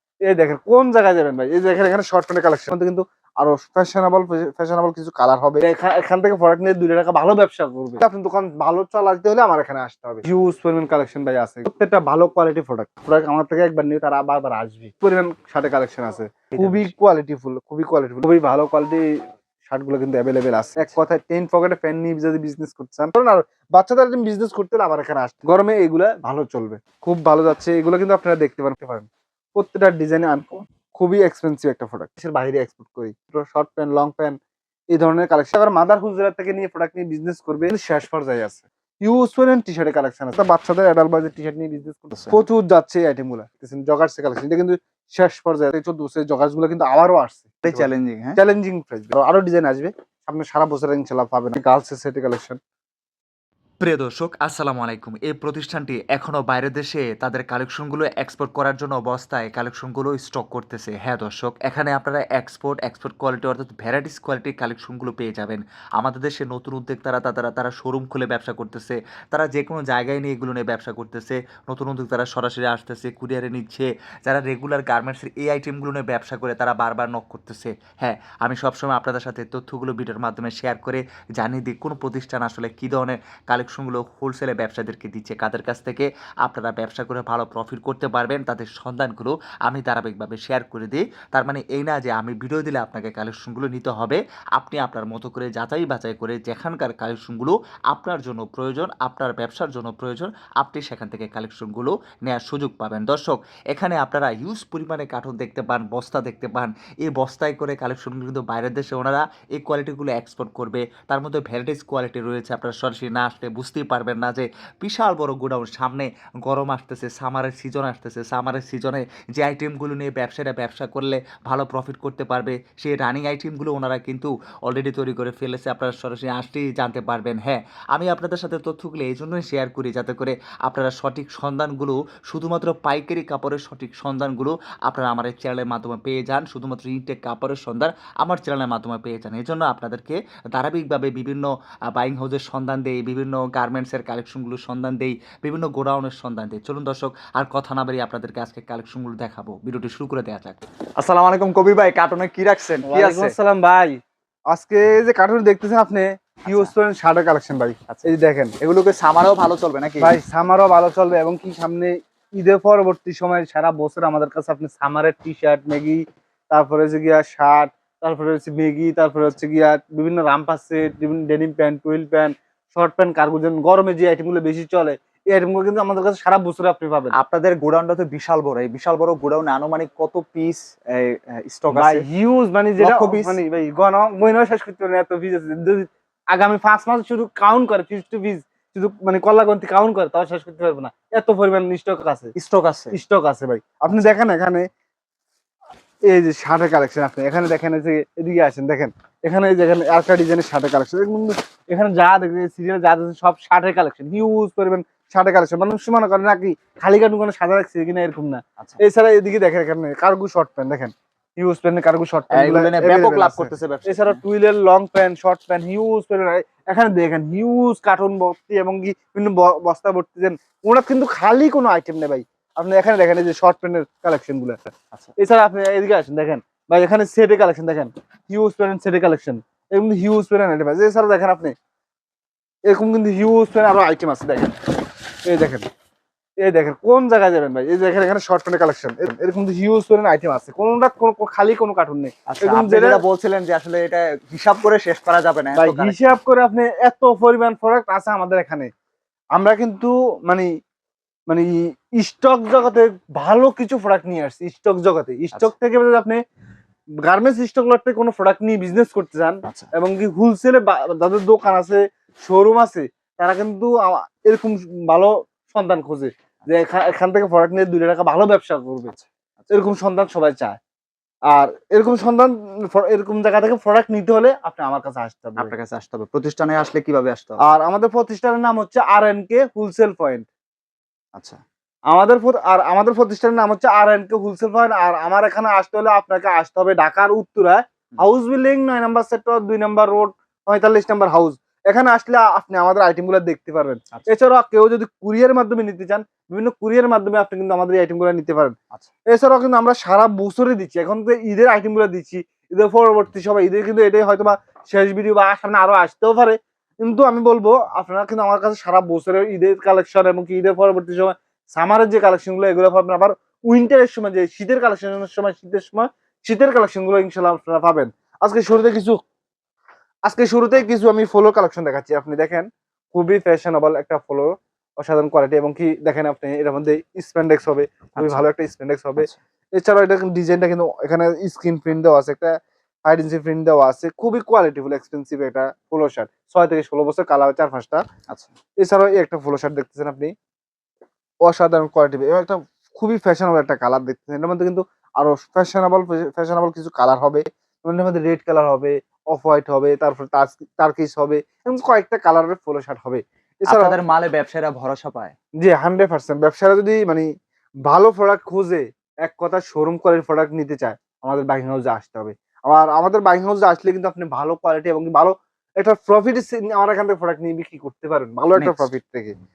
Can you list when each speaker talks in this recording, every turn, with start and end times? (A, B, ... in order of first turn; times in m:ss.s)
0:00.2-0:34.4 A
0:16.5-0:16.9 B
0:34.9-0:52.6 A
0:42.1-0:42.4 B
0:47.6-0:48.4 B
0:53.8-2:30.6 C
2:31.0-2:33.4 B
2:32.9-2:34.0 A
2:34.5-2:38.5 A
2:36.4-2:36.7 B
2:38.6-2:40.1 B
2:40.0-2:57.1 A
2:57.1-3:02.0 B
3:01.7-3:12.3 A
3:02.8-3:03.4 B
3:12.3-3:13.0 B
3:12.9-3:14.7 A
3:13.9-3:14.1 B
3:16.0-3:51.5 A
3:32.3-3:34.2 B
3:52.7-3:54.6 A
3:55.2-3:55.6 A
3:56.4-4:03.0 A
4:02.3-4:06.0 B
4:05.6-4:08.7 A
4:09.3-4:10.5 A
4:11.3-4:16.2 A
4:17.0-4:28.9 A
4:19.4-4:19.7 B
4:28.9-4:29.6 B
4:29.5-4:30.6 A
4:31.3-4:35.5 A
4:35.4-4:37.4 B
4:37.4-4:40.3 A
4:41.1-4:41.4 B
4:41.9-4:58.5 A
4:59.1-5:19.0 A
5:20.0-5:37.8 A
5:27.9-5:28.2 B
5:38.6-5:40.1 A
5:41.2-5:53.8 A
5:53.5-5:55.1 B
5:55.4-5:57.1 A
5:57.7-6:09.1 A
6:08.3-6:08.7 B